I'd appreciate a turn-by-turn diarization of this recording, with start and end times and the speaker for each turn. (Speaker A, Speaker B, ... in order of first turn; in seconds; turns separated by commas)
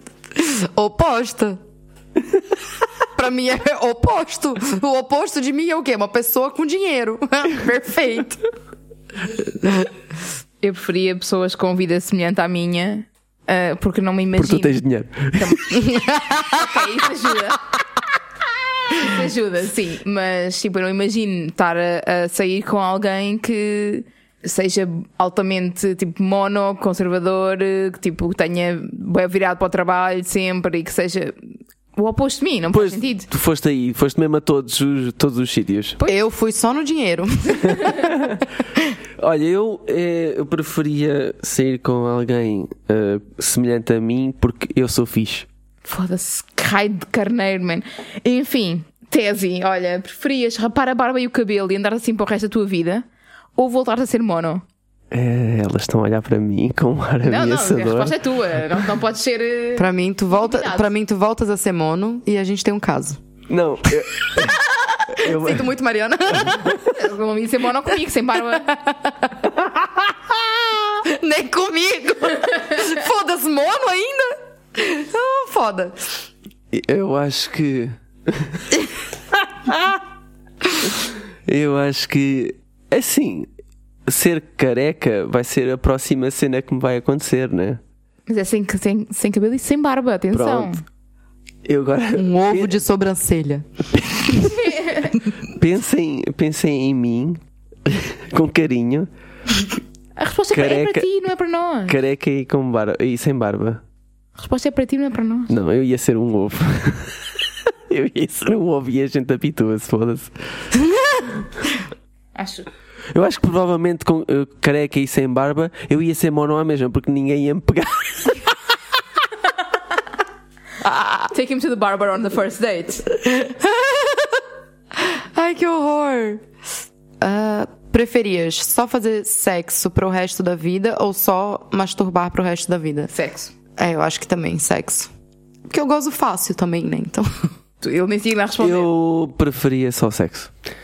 Speaker A: 0.3-1.6, Speaker A: 3.2-8.4, Speaker A: 9.6-9.9, Speaker B: 10.6-14.8, Speaker C: 14.4-15.8, Speaker B: 15.4-17.7, Speaker A: 15.8-16.5, Speaker B: 18.9-31.4, Speaker B: 32.0-33.3, Speaker C: 32.7-36.0, Speaker A: 36.0-38.2, Speaker C: 37.8-38.4, Speaker C: 39.2-45.5, Speaker B: 45.8-53.1, Speaker B: 53.6-54.6, Speaker C: 55.1-58.2, Speaker B: 57.2-60.9, Speaker A: 59.8-63.2, Speaker C: 63.5-64.6, Speaker A: 64.3-66.8, Speaker C: 65.1-65.7, Speaker C: 66.5-66.8, Speaker B: 66.9-68.8, Speaker A: 68.7-76.2, Speaker C: 76.7-78.8, Speaker C: 81.5-83.5, Speaker C: 84.1-87.8, Speaker B: 88.3-90.8, Speaker C: 90.3-90.8, Speaker C: 91.7-92.8, Speaker A: 92.2-93.7, Speaker C: 94.0-94.5, Speaker B: 94.4-95.2, Speaker C: 95.4-99.1, Speaker B: 100.2-102.0, Speaker C: 100.5-101.1, Speaker C: 101.9-103.8, Speaker B: 104.4-105.5, Speaker C: 105.5-107.3, Speaker C: 107.9-110.3, Speaker B: 112.3-112.7, Speaker C: 113.1-118.5, Speaker A: 120.8-121.3, Speaker B: 121.3-123.1, Speaker A: 123.3-124.4, Speaker A: 125.0-126.4, Speaker A: 127.2-133.1, Speaker B: 133.1-133.5, Speaker A: 133.8-135.1, Speaker A: 135.7-137.3, Speaker B: 137.8-138.9, Speaker C: 138.6-140.5